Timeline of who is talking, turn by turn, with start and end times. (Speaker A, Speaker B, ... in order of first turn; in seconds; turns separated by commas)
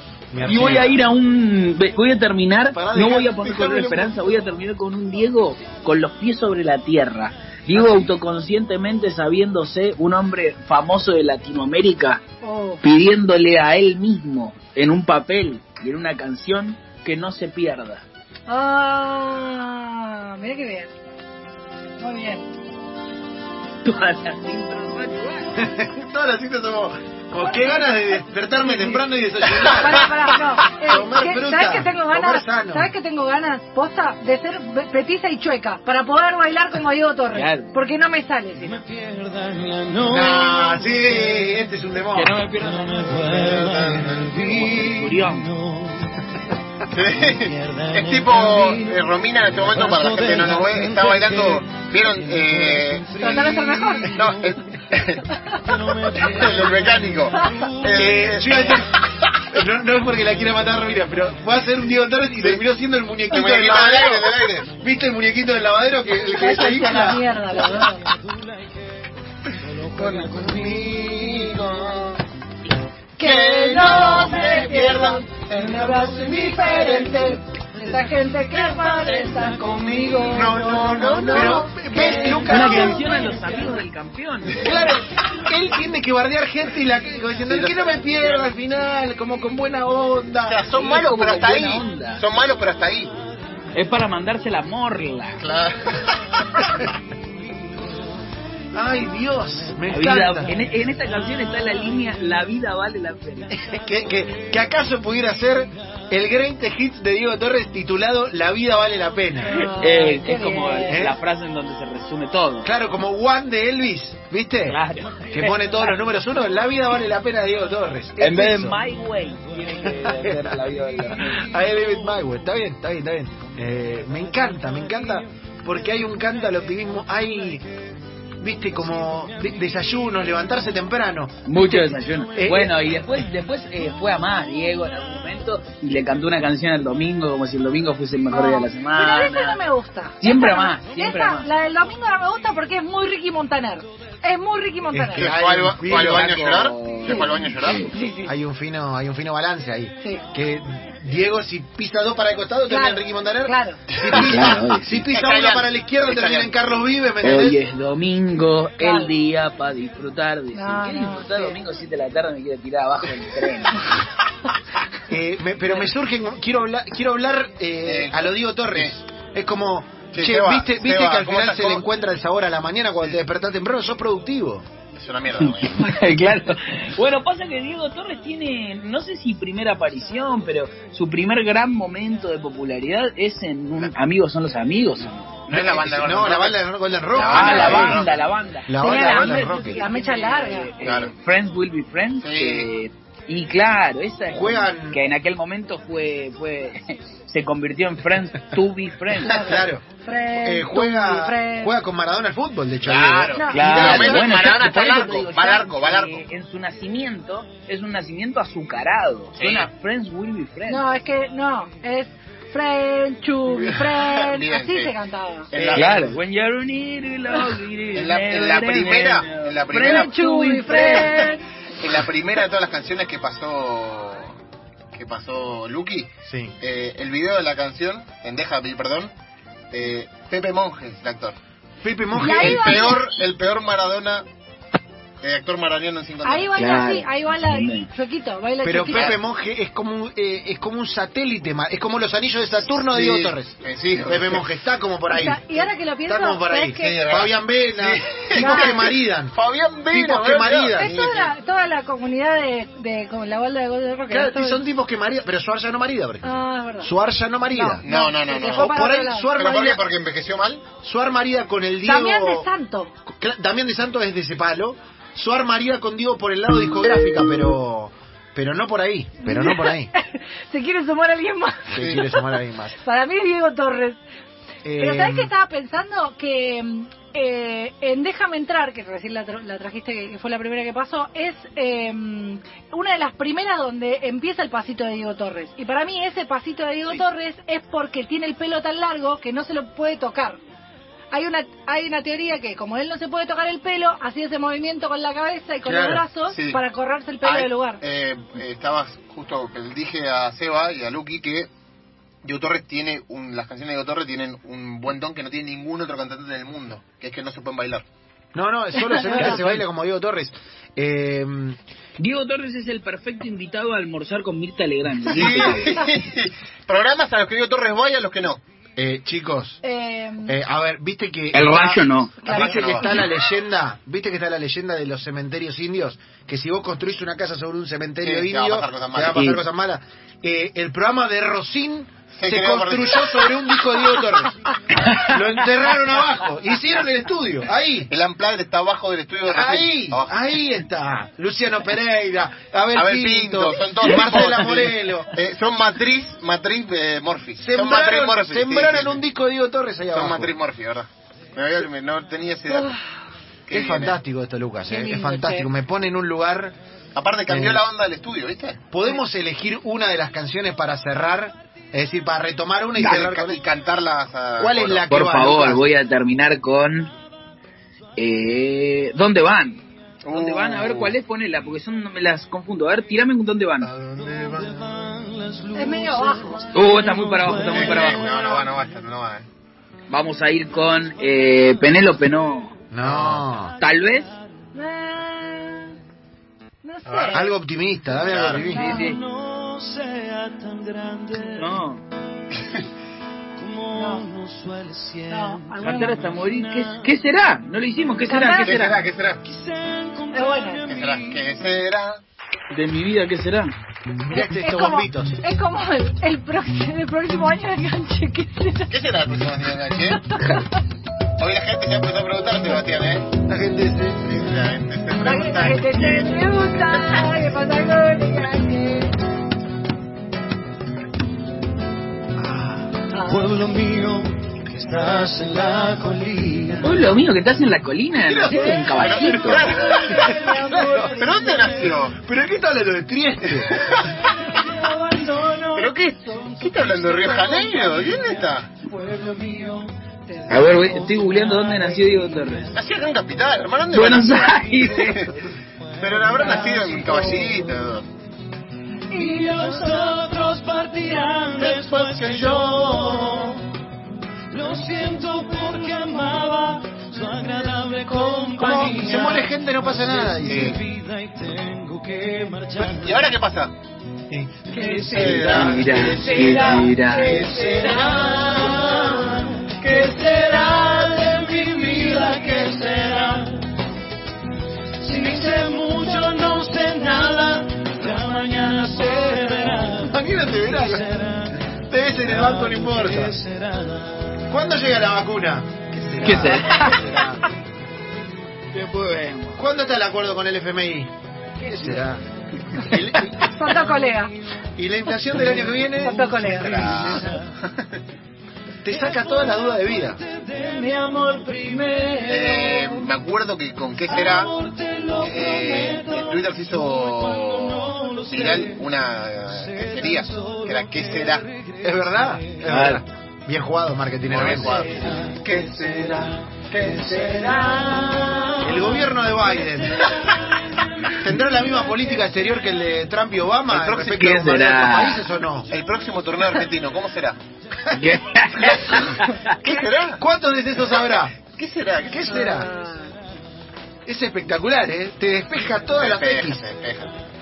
Speaker A: 0.3-1.0, Speaker B: 0.4-12.2, Speaker A: 2.7-4.1, Speaker C: 12.4-12.8, Speaker B: 12.8-18.0, Speaker C: 18.5-20.9, Speaker C: 22.0-22.4, Speaker B: 23.8-25.5, Speaker A: 25.6-32.9, Speaker C: 27.4-28.0, Speaker C: 28.7-29.0, Speaker C: 29.5-38.8, Speaker B: 37.3-37.7, Speaker D: 38.5-40.8, Speaker A: 40.0-42.4, Speaker B: 42.1-43.3, Speaker D: 42.5-46.3, Speaker E: 43.3-44.3, Speaker B: 44.4-45.5, Speaker E: 46.9-53.2, Speaker D: 47.1-54.6, Speaker C: 53.1-54.2, Speaker E: 54.1-55.3, Speaker C: 55.3-55.6, Speaker D: 55.5-58.7, Speaker E: 56.1-58.9, Speaker C: 57.4-57.6, Speaker A: 57.9-67.6, Speaker E: 63.3-64.7, Speaker C: 66.2-68.0, Speaker D: 67.8-68.7, Speaker D: 69.6-70.8, Speaker E: 69.9-72.2, Speaker C: 73.2-83.0, Speaker E: 73.2-76.3, Speaker A: 75.9-77.2, Speaker D: 77.8-81.0, Speaker E: 80.3-82.2, Speaker A: 80.4-83.0, Speaker B: 82.0-84.8, Speaker D: 82.0-83.6, Speaker A: 84.6-90.6, Speaker E: 87.5-88.5, Speaker E: 90.4-93.1, Speaker B: 90.7-92.2, Speaker B: 93.7-95.4, Speaker E: 95.4-96.8, Speaker A: 98.7-100.5, Speaker B: 99.9-103.6, Speaker A: 103.5-109.6, Speaker C: 109.5-111.1, Speaker B: 109.5-112.7, Speaker A: 110.9-111.2, Speaker A: 112.6-118.8, Speaker B: 114.7-115.7, Speaker B: 118.2-121.5, Speaker A: 119.9-127.6, Speaker A: 128.4-132.8, Speaker B: 131.5-139.6, Speaker C: 138.3-145.3, Speaker B: 140.2-141.5, Speaker A: 144.9-146.5, Speaker E: 145.1-147.9, Speaker B: 145.8-147.9, Speaker C: 147.1-148.3, Speaker A: 148.2-157.6, Speaker C: 152.7-153.8, Speaker E: 153.9-154.4, Speaker B: 154.1-155.1, Speaker E: 155.1-156.7, Speaker B: 157.2-163.9, Speaker C: 158.8-159.1, Speaker C: 160.5-161.6, Speaker A: 165.1-174.7, Speaker E: 167.8-168.9, Speaker E: 170.1-171.8, Speaker E: 174.9-176.0, Speaker B: 175.4-185.4, Speaker A: 185.5-188.1, Speaker E: 185.5-188.2, Speaker B: 187.2-199.5, Speaker A: 188.7-189.9, Speaker C: 188.8-190.8, Speaker E: 190.8-191.1, Speaker E: 192.2-192.7, Speaker A: 194.3-195.0, Speaker C: 199.2-201.7, Speaker A: 199.4-199.9, Speaker A: 200.4-203.8, Speaker E: 202.8-206.2, Speaker C: 203.3-204.2, Speaker B: 203.5-210.8, Speaker E: 209.4-209.7, Speaker C: 210.7-215.5, Speaker E: 213.5-214.9, Speaker E: 215.5-216.2, Speaker A: 215.5-215.9, Speaker B: 215.7-221.3, Speaker E: 217.9-220.2, Speaker C: 219.8-221.4, Speaker E: 220.7-221.2, Speaker E: 221.8-224.4, Speaker E: 224.9-229.1, Speaker A: 226.2-226.5, Speaker E: 229.7-231.3, Speaker A: 231.8-233.0, Speaker C: 232.1-233.2, Speaker E: 232.2-234.2, Speaker E: 235.2-236.6, Speaker C: 236.2-239.2, Speaker B: 236.5-237.9, Speaker A: 238.6-249.4, Speaker E: 238.9-239.2, Speaker E: 242.7-244.4, Speaker C: 245.1-247.0, Speaker E: 246.8-251.3, Speaker C: 248.3-248.9, Speaker A: 249.9-251.0, Speaker C: 250.7-254.6, Speaker A: 254.1-257.9, Speaker C: 256.2-256.9, Speaker C: 257.5-259.4, Speaker E: 257.8-260.7, Speaker A: 258.5-259.8, Speaker A: 260.8-262.5, Speaker C: 261.8-262.9, Speaker A: 263.1-269.9, Speaker C: 269.2-272.2, Speaker A: 271.7-272.8, Speaker E: 271.8-272.0, Speaker C: 272.8-274.0, Speaker A: 274.6-275.3, Speaker C: 274.8-290.4, Speaker C: 291.1-297.8, Speaker A: 295.6-296.0, Speaker E: 296.2-296.6, Speaker E: 297.2-301.5, Speaker E: 302.2-307.8, Speaker A: 308.3-311.6, Speaker C: 308.9-309.4, Speaker B: 309.1-309.6, Speaker B: 312.0-315.8, Speaker E: 315.1-318.4, Speaker A: 318.8-319.6, Speaker C: 319.6-320.3, Speaker A: 320.2-337.9, Speaker B: 321.3-322.3, Speaker C: 322.2-323.1, Speaker E: 322.2-323.0, Speaker E: 328.0-329.2, Speaker B: 329.1-329.4, Speaker E: 332.1-333.3, Speaker B: 334.7-335.2, Speaker E: 337.9-340.3, Speaker A: 339.2-345.1, Speaker E: 342.7-349.0, Speaker A: 347.4-350.3, Speaker E: 349.9-352.7, Speaker C: 352.5-352.8, Speaker E: 353.5-354.0, Speaker A: 353.5-356.5, Speaker C: 354.7-355.5, Speaker E: 356.9-358.6, Speaker A: 357.3-357.6, Speaker A: 358.7-363.4, Speaker E: 362.8-364.9, Speaker A: 364.4-365.6, Speaker B: 364.9-366.9, Speaker B: 368.0-373.7, Speaker E: 370.0-370.9, Speaker E: 373.6-374.7, Speaker D: 374.0-378.1, Speaker C: 375.5-376.7, Speaker B: 376.5-378.1, Speaker E: 377.5-379.3, Speaker C: 377.8-378.5, Speaker B: 379.9-382.6, Speaker A: 382.7-383.5, Speaker E: 382.8-383.2, Speaker B: 383.6-384.1, Speaker C: 384.5-385.8, Speaker C: 386.6-387.2, Speaker E: 386.9-387.2, Speaker A: 387.1-388.7, Speaker E: 387.9-388.5, Speaker B: 388.5-389.0, Speaker D: 388.5-391.6, Speaker C: 388.5-388.9, Speaker B: 391.4-391.8, Speaker D: 393.4-396.8, Speaker C: 393.7-394.0, Speaker C: 395.1-396.0, Speaker B: 395.6-398.8, Speaker C: 398.1-398.6, Speaker E: 398.4-399.2, Speaker D: 399.2-401.2, Speaker C: 400.1-400.6, Speaker E: 400.7-402.0, Speaker B: 402.5-403.6, Speaker A: 404.1-405.2, Speaker C: 404.1-408.7, Speaker E: 408.7-410.1, Speaker C: 410.1-410.6, Speaker E: 411.2-413.1, Speaker A: 413.2-414.2, Speaker E: 414.0-417.0, Speaker C: 415.0-418.9, Speaker A: 422.1-422.7, Speaker C: 422.9-423.3, Speaker D: 423.0-426.9, Speaker B: 426.6-429.5, Speaker A: 428.1-431.0, Speaker C: 428.3-431.7, Speaker E: 428.7-430.3, Speaker E: 430.9-432.0, Speaker D: 431.3-431.6, Speaker A: 431.9-433.8, Speaker E: 433.4-434.1, Speaker D: 434.2-442.6, Speaker E: 435.5-438.5, Speaker B: 440.3-442.5, Speaker E: 442.5-445.1, Speaker B: 443.7-445.1, Speaker D: 444.6-445.1, Speaker E: 445.8-447.9, Speaker D: 445.8-447.5, Speaker C: 448.9-449.8, Speaker D: 448.9-453.4, Speaker E: 451.4-452.4, Speaker D: 454.3-463.1, Speaker A: 458.4-460.6, Speaker C: 458.5-458.9, Speaker E: 460.3-460.6, Speaker E: 462.7-463.5, Speaker D: 464.5-473.4, Speaker C: 464.5-468.0, Speaker E: 464.9-466.1, Speaker B: 465.2-467.3, Speaker D: 474.8-484.2, Speaker A: 479.8-480.9, Speaker A: 481.7-483.2, Speaker A: 484.3-487.3, Speaker B: 486.0-486.8, Speaker B: 488.5-489.4, Speaker A: 489.4-492.0, Speaker A: 492.5-493.6, Speaker C: 493.2-494.1, Speaker A: 494.6-497.1, Speaker C: 495.7-496.8, Speaker D: 496.4-497.2, Speaker E: 496.4-497.7, Speaker A: 498.6-500.0, Speaker D: 498.8-502.9, Speaker E: 502.1-504.3, Speaker D: 503.8-508.7, Speaker E: 505.0-511.2, Speaker D: 509.3-512.5, Speaker A: 511.6-514.8, Speaker B: 512.5-512.8, Speaker E: 514.0-517.5, Speaker D: 514.3-521.8, Speaker A: 518.4-520.0, Speaker A: 521.0-525.5, Speaker E: 523.5-524.9, Speaker B: 523.9-525.1, Speaker E: 525.5-527.2, Speaker A: 527.6-531.1, Speaker B: 527.7-529.3, Speaker E: 528.7-530.0, Speaker E: 530.6-532.5, Speaker A: 531.9-532.5, Speaker C: 532.3-532.9, Speaker A: 533.9-536.4, Speaker E: 535.8-536.9